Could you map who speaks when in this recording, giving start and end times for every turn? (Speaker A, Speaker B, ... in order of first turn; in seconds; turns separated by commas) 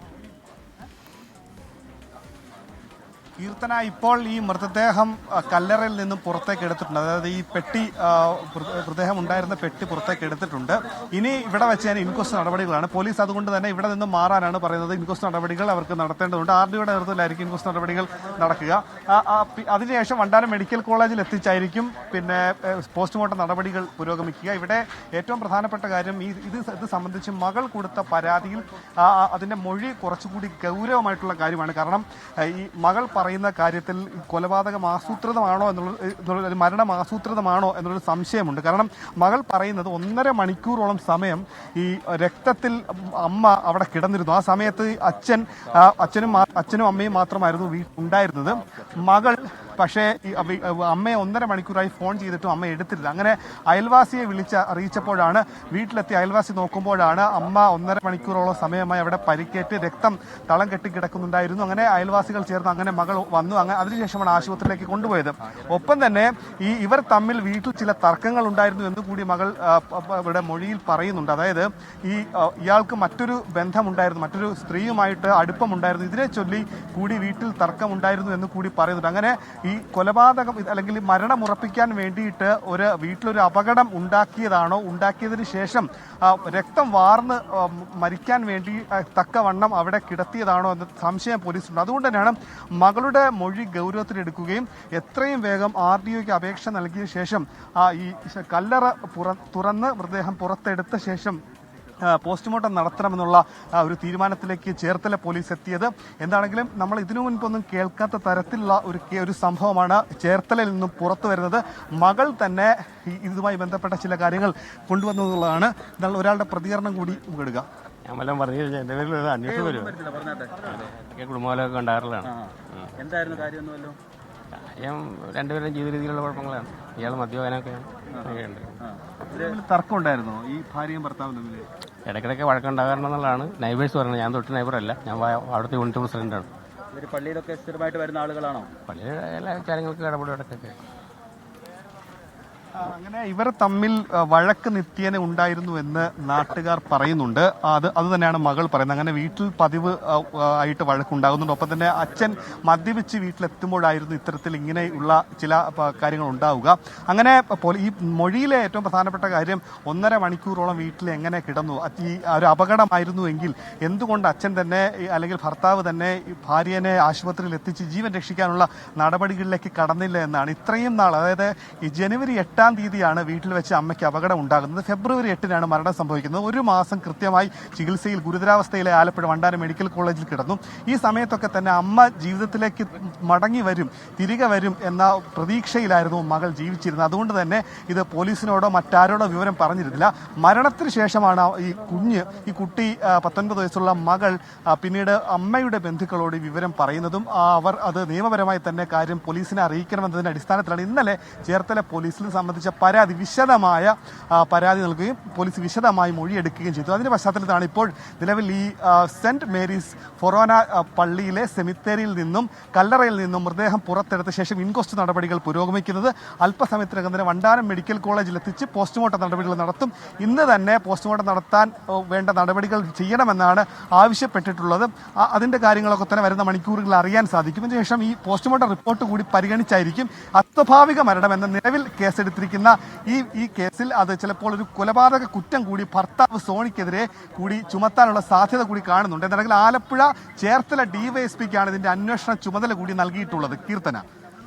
Speaker A: 3.4-101.4, Speaker A: 102.0-117.7, Speaker B: 118.0-120.0, Speaker C: 119.4-120.8, Speaker B: 120.6-123.5, Speaker C: 122.2-124.0, Speaker B: 124.5-128.8, Speaker C: 128.1-129.5, Speaker A: 129.3-131.6, Speaker B: 132.1-136.5, Speaker C: 136.9-138.7, Speaker B: 138.9-140.8, Speaker A: 142.8-244.0